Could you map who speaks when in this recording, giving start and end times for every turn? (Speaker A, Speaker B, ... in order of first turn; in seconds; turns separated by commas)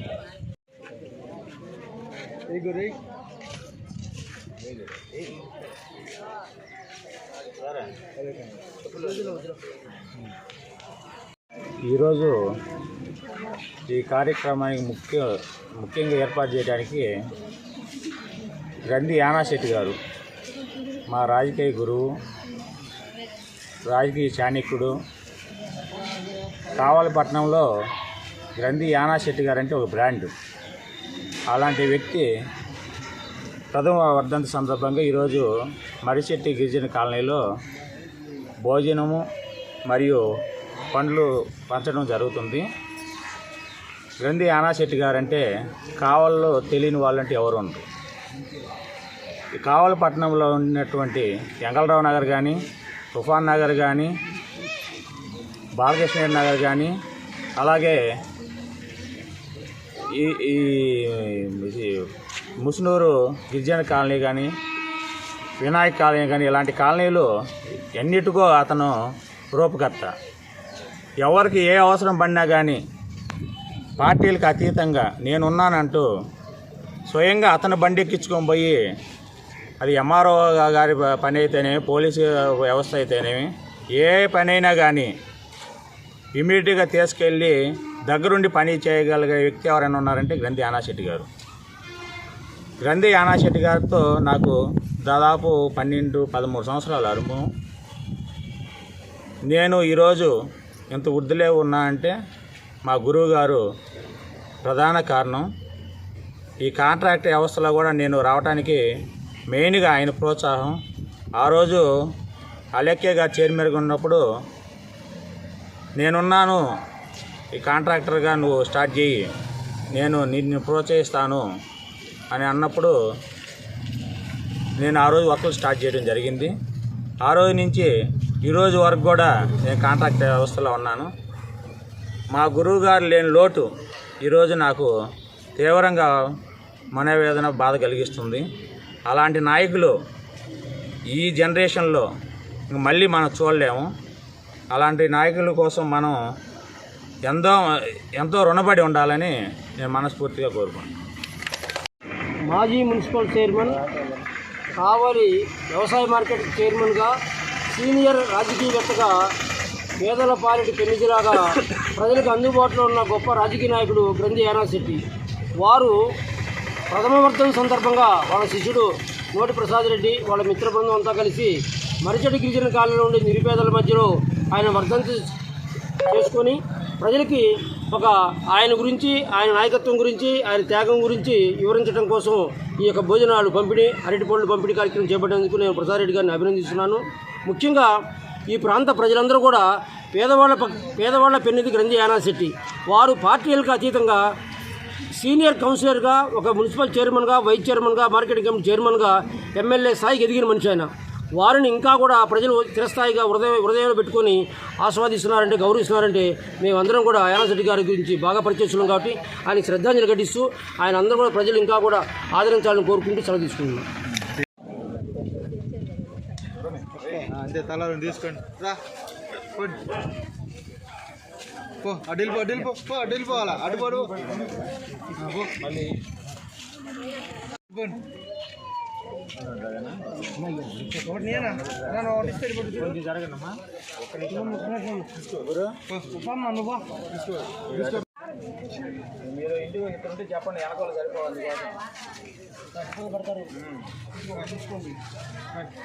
Speaker A: 2.5-3.0, Speaker B: 11.9-12.4, Speaker B: 13.9-17.1, Speaker B: 18.9-20.0, Speaker B: 21.1-22.1, Speaker B: 23.9-24.9, Speaker B: 26.7-27.7, Speaker B: 28.6-30.3, Speaker B: 31.5-32.3, Speaker B: 33.7-35.5, Speaker B: 36.0-37.4, Speaker B: 38.6-39.3, Speaker B: 39.9-40.2, Speaker B: 40.9-42.7, Speaker B: 44.2-47.8, Speaker B: 49.6-52.6, Speaker B: 53.1-54.1, Speaker B: 55.8-56.9, Speaker B: 57.6-58.0, Speaker B: 60.1-62.1, Speaker B: 62.6-64.5, Speaker B: 65.6-67.3, Speaker B: 67.9-68.9, Speaker B: 69.5-70.1, Speaker B: 71.2-72.8, Speaker B: 74.0-76.1, Speaker B: 77.1-78.8, Speaker B: 79.8-85.1, Speaker B: 86.4-91.3, Speaker B: 92.8-97.5, Speaker B: 99.5-100.3, Speaker B: 100.9-102.2, Speaker B: 102.9-103.6, Speaker B: 104.6-105.5, Speaker B: 106.6-108.8, Speaker B: 109.5-110.8, Speaker B: 111.4-111.9, Speaker B: 112.8-114.2, Speaker B: 116.0-116.6, Speaker B: 117.5-119.2, Speaker B: 119.9-121.4, Speaker B: 122.3-123.0, Speaker B: 124.8-126.5, Speaker B: 127.2-127.9, Speaker B: 128.4-131.1, Speaker B: 132.3-133.7, Speaker B: 134.2-134.9, Speaker B: 135.6-136.1, Speaker B: 136.9-138.4, Speaker B: 139.1-139.9, Speaker B: 141.1-142.1, Speaker B: 142.7-143.9, Speaker B: 144.7-146.2, Speaker B: 147.3-147.7, Speaker B: 148.2-150.9, Speaker C: 152.5-154.1, Speaker C: 154.8-157.2, Speaker C: 157.7-159.3, Speaker C: 160.0-165.0, Speaker C: 165.6-166.1, Speaker C: 166.9-175.3, Speaker C: 176.1-187.9, Speaker C: 188.5-194.3, Speaker C: 195.1-213.9, Speaker A: 217.0-218.8, Speaker A: 219.5-219.8, Speaker A: 221.8-224.4, Speaker B: 223.6-224.5, Speaker A: 225.2-225.6, Speaker B: 225.4-225.9, Speaker A: 227.7-228.0, Speaker B: 229.3-230.3, Speaker C: 230.6-231.6, Speaker B: 230.8-235.9, Speaker A: 232.0-232.6, Speaker C: 234.4-235.1, Speaker C: 236.2-236.8, Speaker B: 237.7-238.1, Speaker B: 239.2-241.8, Speaker C: 242.9-243.4, Speaker B: 243.5-243.9